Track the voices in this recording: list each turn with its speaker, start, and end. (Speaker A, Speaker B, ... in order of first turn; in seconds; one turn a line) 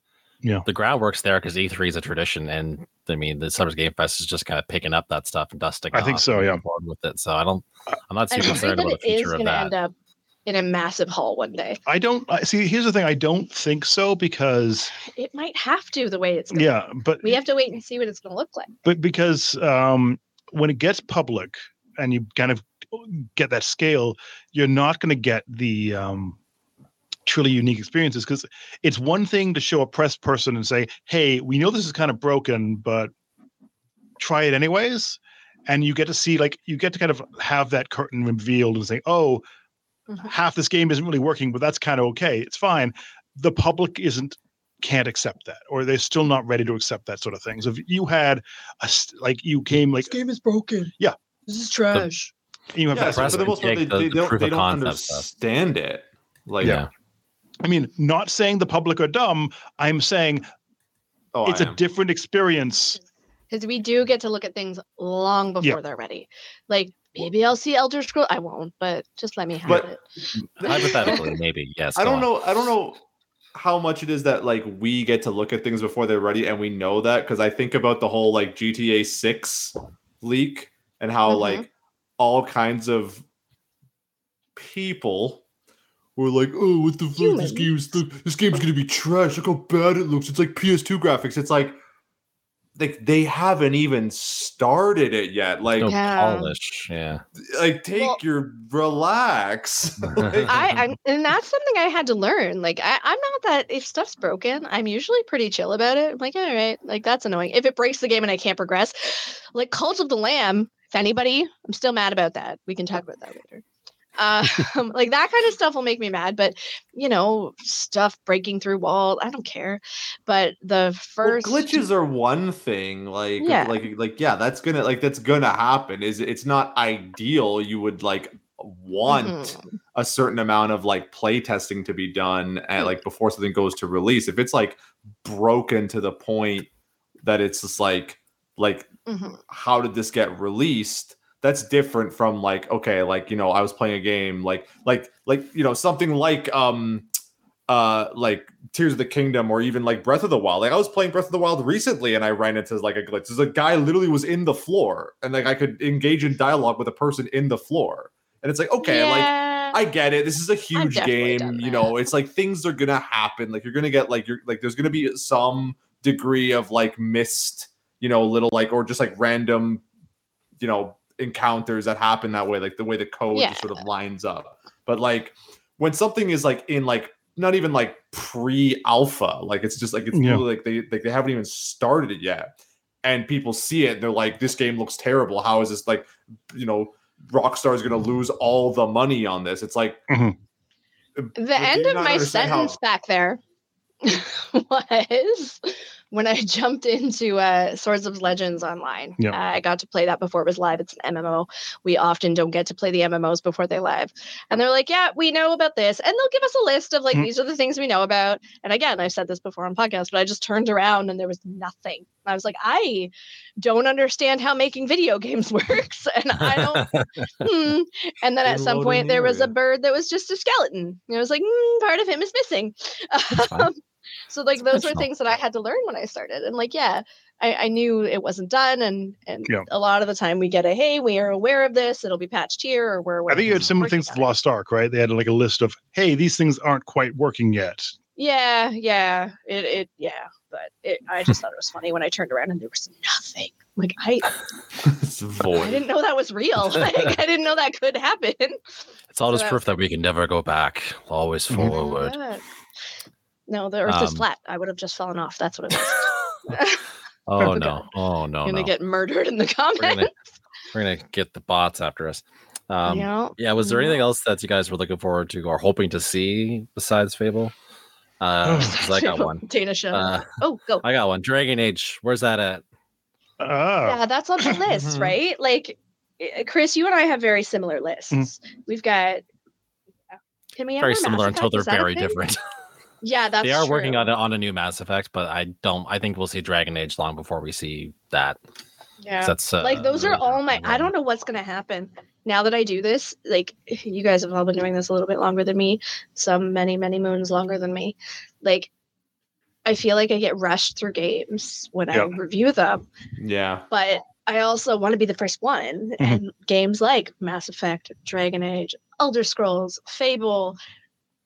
Speaker A: 0.7-9.7
Speaker B: 5.9-6.6
Speaker C: 8.3-9.9
Speaker C: 10.5-11.8
Speaker B: 11.9-14.9
Speaker C: 15.1-18.7
Speaker B: 16.5-17.4
Speaker B: 18.9-26.4
Speaker B: 27.2-33.1
Speaker B: 34.2-39.4
Speaker B: 40.2-50.1
Speaker C: 50.1-50.9
Speaker C: 51.5-52.3
Speaker B: 52.7-53.6
Speaker D: 52.9-56.8
Speaker A: 53.0-55.3
Speaker A: 56.6-56.9
Speaker B: 57.6-60.4
Speaker D: 61.3-61.8
Speaker B: 61.5-63.0
Speaker C: 63.5-70.0
Speaker D: 70.6-71.2
Speaker A: 70.6-72.3
Speaker C: 70.6-71.2
Speaker D: 72.0-73.0
Speaker D: 73.5-81.7
Speaker C: 81.3-81.7
Speaker D: 82.2-83.2
Speaker D: 84.6-85.4
Speaker D: 86.2-91.8
Speaker C: 87.2-87.7
Speaker D: 92.8-95.9
Speaker A: 95.8-97.2
Speaker C: 95.8-96.5
Speaker D: 97.4-100.6
Speaker C: 97.9-98.2
Speaker C: 100.4-113.6
Speaker C: 114.2-121.8
Speaker D: 121.2-136.7
Speaker C: 123.4-123.8
Speaker C: 129.1-129.7
Speaker D: 137.2-138.9
Speaker C: 139.1-139.4
Speaker D: 139.5-147.1
Speaker D: 147.7-169.8
Speaker C: 158.8-159.8
Speaker C: 160.7-162.0
Speaker D: 170.6-182.5
Speaker C: 173.3-173.8
Speaker B: 180.1-180.4
Speaker D: 183.0-190.0
Speaker B: 190.1-190.3
Speaker D: 191.2-192.8
Speaker C: 191.4-193.4
Speaker C: 194.0-216.9
Speaker A: 216.4-217.3
Speaker C: 217.4-234.3
Speaker D: 218.4-219.5
Speaker A: 224.7-225.0
Speaker B: 233.3-237.9
Speaker C: 238.2-244.3
Speaker D: 244.8-245.8
Speaker C: 245.6-248.6
Speaker A: 249.1-252.2
Speaker C: 249.3-249.6
Speaker C: 251.7-252.4
Speaker C: 253.5-256.8
Speaker A: 253.9-254.2
Speaker A: 257.3-258.7
Speaker C: 257.4-257.9
Speaker C: 258.4-260.1
Speaker A: 259.8-260.1
Speaker A: 260.7-267.5
Speaker C: 262.9-264.0
Speaker A: 268.2-270.3
Speaker B: 268.4-268.7
Speaker C: 268.6-270.9
Speaker A: 270.8-272.6
Speaker B: 273.4-274.6
Speaker C: 273.9-279.2
Speaker D: 274.7-275.2
Speaker C: 280.6-282.2
Speaker A: 280.8-282.4
Speaker C: 283.0-284.1
Speaker A: 283.4-288.4
Speaker C: 289.0-298.7
Speaker A: 289.2-290.9
Speaker C: 299.6-302.8
Speaker D: 303.2-303.6
Speaker C: 303.7-310.6